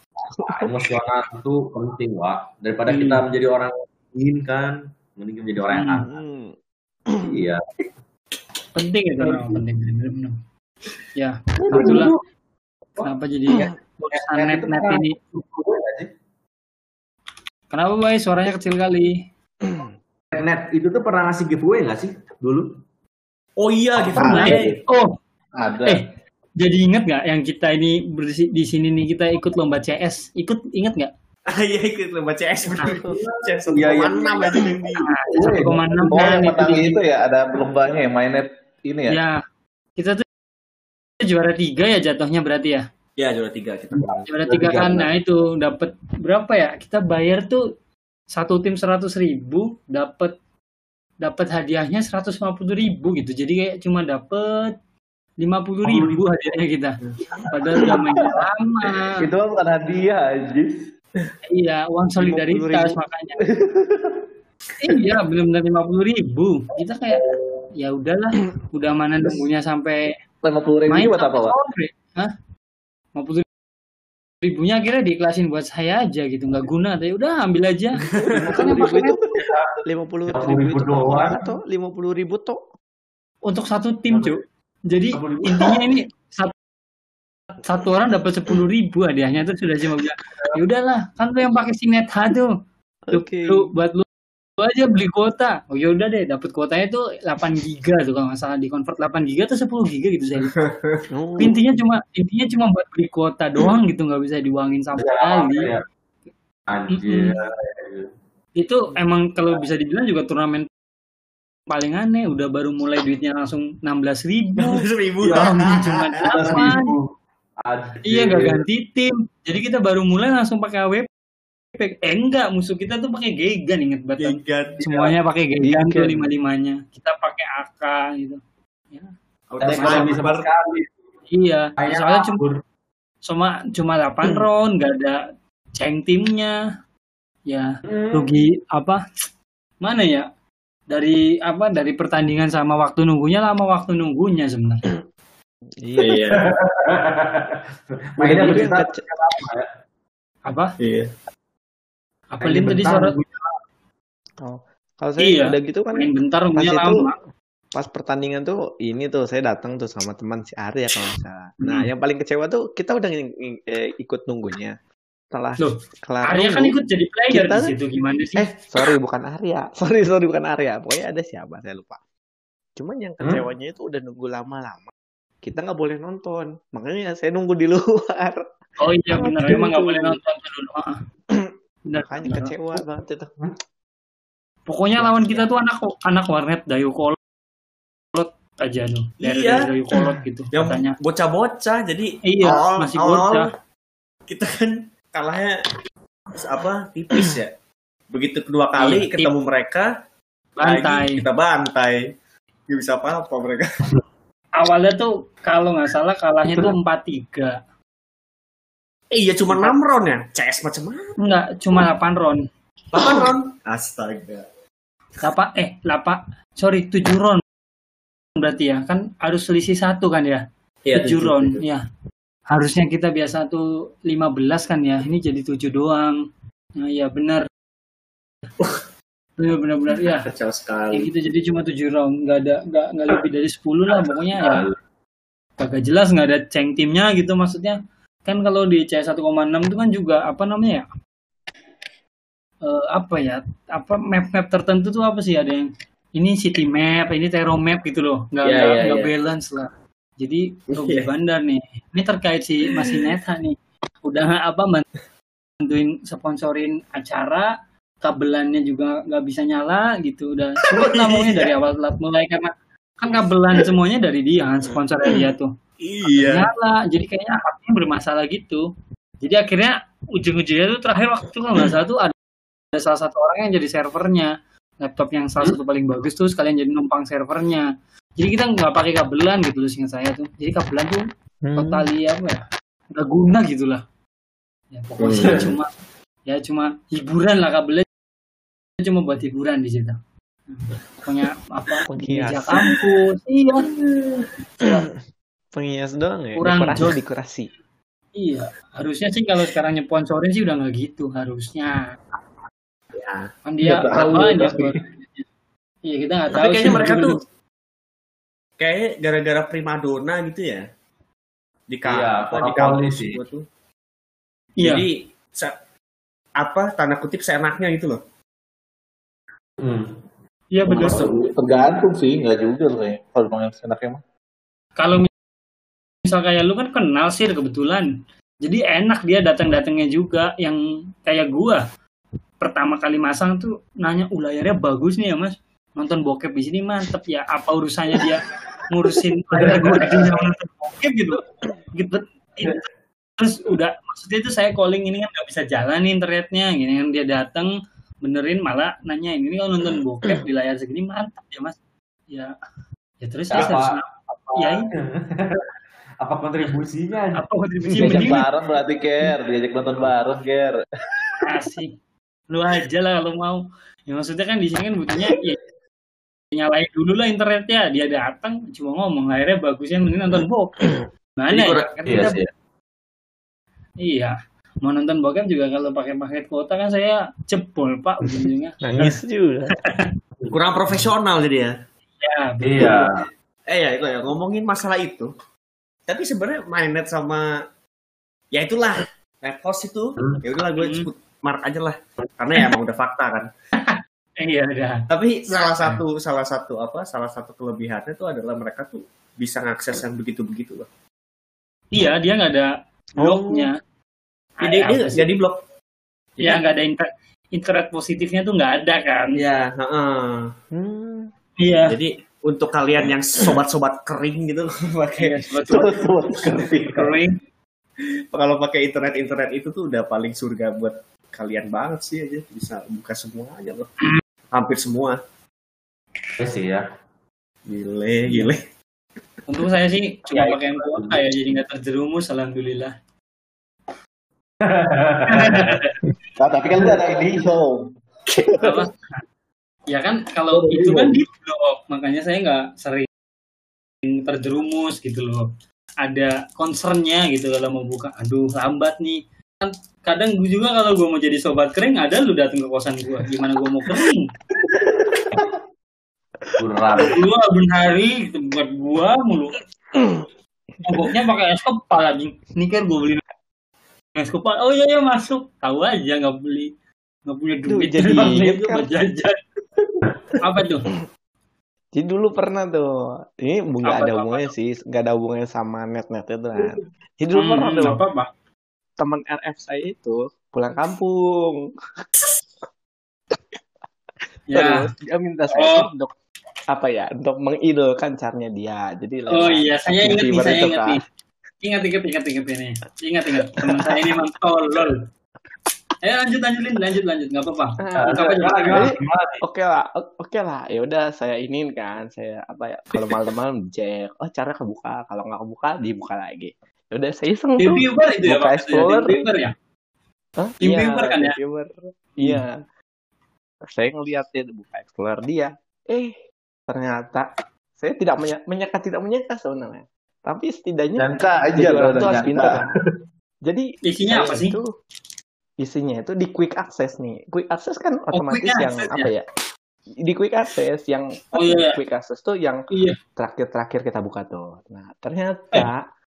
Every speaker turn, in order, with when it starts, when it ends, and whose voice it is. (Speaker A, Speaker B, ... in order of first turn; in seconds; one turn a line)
Speaker A: 0.5-6.2
Speaker B: 5.7-6.0
Speaker C: 6.0-6.5
Speaker C: 7.1-7.3
Speaker A: 7.2-7.6
Speaker B: 8.8-10.4
Speaker A: 9.2-9.6
Speaker B: 11.2-12.1
Speaker A: 11.7-12.2
Speaker B: 13.0-15.2
Speaker A: 14.1-16.1
Speaker B: 17.7-19.2
Speaker A: 20.3-22.7
Speaker D: 23.6-24.8
Speaker E: 24.1-24.8
Speaker B: 24.2-25.2
Speaker E: 25.6-26.0
Speaker B: 26.6-31.1
Speaker D: 31.5-35.2
Speaker C: 32.8-33.2
Speaker A: 32.9-35.8
Speaker B: 35.0-37.0
Speaker E: 36.1-39.2
Speaker B: 39.1-39.3
Speaker B: 40.0-40.2
Speaker B: 41.2-42.9
Speaker D: 43.2-44.3
Speaker A: 43.9-45.1
Speaker B: 44.3-47.6
Speaker B: 48.3-50.3
Speaker B: 51.2-54.8
Speaker B: 55.4-57.0
Speaker A: 55.9-56.2
Speaker B: 57.5-59.2
Speaker E: 59.2-60.9
Speaker B: 61.5-63.4
Speaker C: 62.3-62.9
Speaker E: 63.5-64.2
Speaker B: 64.8-67.2
Speaker B: 67.8-70.1
Speaker E: 70.4-71.6
Speaker B: 70.9-72.3
Speaker B: 73.2-73.5
Speaker B: 74.4-79.2
Speaker D: 78.1-78.7
Speaker C: 78.4-82.6
Speaker A: 79.4-79.7
Speaker A: 80.3-81.4
Speaker B: 83.5-86.5
Speaker A: 84.1-84.4
Speaker A: 85.1-85.8
Speaker B: 87.6-92.5
Speaker C: 93.1-93.7
Speaker B: 93.1-94.1
Speaker B: 94.6-100.6
Speaker D: 100.5-101.0
Speaker C: 101.1-101.6
Speaker B: 101.4-105.7
Speaker A: 105.0-105.8
Speaker A: 106.7-108.1
Speaker B: 106.9-107.4
Speaker B: 108.6-110.7
Speaker B: 111.7-117.0
Speaker D: 114.6-116.7
Speaker A: 115.2-115.5
Speaker A: 116.2-117.1
Speaker A: 117.6-118.6
Speaker B: 118.0-121.1
Speaker B: 121.8-128.4
Speaker D: 124.2-125.1
Speaker C: 125.6-126.3
Speaker D: 129.5-130.5
Speaker A: 129.6-130.9
Speaker B: 129.7-130.1
Speaker B: 131.3-132.4
Speaker A: 131.8-132.6
Speaker B: 133.3-135.2
Speaker B: 135.8-136.5
Speaker B: 137.5-139.2
Speaker A: 137.9-138.3
Speaker B: 139.8-140.3
Speaker B: 140.9-144.9
Speaker C: 145.8-146.2
Speaker D: 146.0-146.5
Speaker A: 146.3-149.7
Speaker C: 148.2-149.0
Speaker B: 150.5-150.8
Speaker D: 150.8-151.1
Speaker B: 152.3-153.2
Speaker A: 152.4-153.5
Speaker C: 154.4-157.1
Speaker B: 155.2-157.2
Speaker C: 157.7-164.8
Speaker C: 165.3-166.8
Speaker B: 165.6-168.6
Speaker C: 167.3-167.8
Speaker C: 168.4-172.0
Speaker C: 172.8-174.9
Speaker C: 175.4-178.4
Speaker B: 178.8-181.0
Speaker C: 179.1-180.2
Speaker C: 181.3-183.5
Speaker B: 181.9-182.8
Speaker B: 184.7-187.2
Speaker D: 185.0-185.4
Speaker B: 188.1-191.0
Speaker D: 189.2-189.7
Speaker D: 190.5-193.4
Speaker B: 192.2-193.5
Speaker D: 194.3-195.6
Speaker D: 196.3-197.5
Speaker D: 198.1-199.9
Speaker B: 198.8-199.3
Speaker B: 200.6-201.2
Speaker D: 200.6-202.0
Speaker D: 202.7-203.8
Speaker B: 204.6-207.6
Speaker D: 209.1-211.1
Speaker B: 209.5-209.8
Speaker B: 211.2-212.4
Speaker D: 212.9-214.5
Speaker B: 215.2-217.4
Speaker B: 218.4-221.8
Speaker D: 220.8-221.6
Speaker B: 222.5-226.2
Speaker B: 226.8-227.5
Speaker B: 229.4-230.3
Speaker D: 230.1-231.1
Speaker B: 230.9-234.6
Speaker A: 234.3-234.8
Speaker B: 235.6-240.8
Speaker B: 242.6-254.9
Speaker D: 248.4-249.1
Speaker D: 250.7-251.1
Speaker B: 255.6-257.5
Speaker B: 258.0-265.5
Speaker D: 260.6-261.5
Speaker D: 265.8-266.5
Speaker B: 266.1-268.6
Speaker B: 269.2-272.1
Speaker B: 272.7-277.7
Speaker B: 278.2-283.8
Speaker C: 281.4-281.9
Speaker B: 284.7-285.7
Speaker D: 285.0-285.5
Speaker A: 285.2-285.4
Speaker B: 286.3-287.9
Speaker B: 288.8-290.0
Speaker B: 290.5-293.7
Speaker C: 291.9-292.7
Speaker D: 293.8-294.3
Speaker C: 294.6-294.9
Speaker C: 295.5-297.5
Speaker B: 296.4-297.0
Speaker B: 298.2-301.8
Speaker D: 302.9-303.3
Speaker B: 303.5-305.2
Speaker E: 303.6-304.7
Speaker B: 305.9-307.2
Speaker D: 306.3-307.2
Speaker D: 308.6-310.7
Speaker D: 311.7-313.4
Speaker A: 311.9-313.2
Speaker B: 314.6-314.9
Speaker D: 314.6-315.6
Speaker D: 316.4-318.0
Speaker A: 319.6-320.0
Speaker B: 320.5-321.1
Speaker A: 320.7-321.3
Speaker E: 320.9-324.0
Speaker B: 324.8-325.1
Speaker B: 326.1-327.9
Speaker B: 328.4-331.6
Speaker B: 332.4-342.7
Speaker A: 339.3-340.3
Speaker B: 343.2-351.6
Speaker B: 352.1-352.3
Speaker B: 353.0-354.7
Speaker A: 353.3-355.5
Speaker A: 356.0-357.2
Speaker B: 357.1-358.3
Speaker C: 357.8-358.0
Speaker A: 357.8-358.1
Speaker E: 357.8-360.6
Speaker B: 361.2-361.7
Speaker B: 362.3-365.4
Speaker B: 366.3-370.6
Speaker B: 371.2-372.2
Speaker A: 371.3-372.3
Speaker B: 373.8-379.0
Speaker C: 378.6-379.5
Speaker B: 379.6-379.9
Speaker D: 380.3-381.5
Speaker B: 382.0-382.9
Speaker A: 382.4-383.0
Speaker D: 383.5-385.1
Speaker D: 385.9-387.4
Speaker D: 388.3-393.3
Speaker B: 390.6-390.9
Speaker B: 393.6-395.8
Speaker D: 394.9-400.7
Speaker B: 401.7-403.6
Speaker C: 403.0-403.5
Speaker B: 404.4-405.1
Speaker D: 404.4-405.4
Speaker D: 406.2-406.4
Speaker B: 406.2-409.2
Speaker D: 409.1-410.3
Speaker C: 410.5-411.1
Speaker B: 411.4-411.8
Speaker D: 411.7-415.7
Speaker B: 415.0-415.8
Speaker E: 415.5-416.9
Speaker B: 416.7-417.1
Speaker D: 417.8-423.7
Speaker D: 424.3-425.0
Speaker A: 426.2-426.6
Speaker D: 427.5-428.4
Speaker B: 429.3-432.7
Speaker A: 430.1-431.0
Speaker A: 434.4-435.6
Speaker B: 435.1-435.8
Speaker E: 436.2-438.5
Speaker B: 438.4-439.0
Speaker B: 439.7-442.9
Speaker E: 440.4-441.0
Speaker B: 443.9-445.3
Speaker B: 445.8-454.1
Speaker A: 456.4-457.0
Speaker B: 456.8-459.4
Speaker C: 459.7-460.1
Speaker B: 460.6-463.0
Speaker B: 464.0-466.5
Speaker B: 467.1-469.2
Speaker C: 467.5-468.7
Speaker C: 469.6-470.2
Speaker B: 470.2-470.7
Speaker C: 471.7-477.8
Speaker B: 473.7-474.3
Speaker B: 477.1-478.1
Speaker C: 478.8-481.4
Speaker B: 484.3-484.7
Speaker C: 484.3-485.9
Speaker B: 485.3-485.7
Speaker C: 486.5-490.8
Speaker B: 489.1-490.8
Speaker B: 491.4-494.8
Speaker C: 493.4-493.6
Speaker B: 495.8-498.7
Speaker C: 497.6-509.1
Speaker A: 497.8-499.2
Speaker B: 507.4-509.3
Speaker C: 510.2-512.4
Speaker B: 510.4-511.2
Speaker B: 512.0-512.2
Speaker C: 513.5-516.0
Speaker C: 516.5-522.5
Speaker E: 520.8-522.5
Speaker C: 523.2-524.5
Speaker B: 523.6-524.4
Speaker C: 525.4-529.0
Speaker B: 527.9-528.9
Speaker C: 529.8-535.7
Speaker B: 531.1-531.6
Speaker B: 532.5-532.8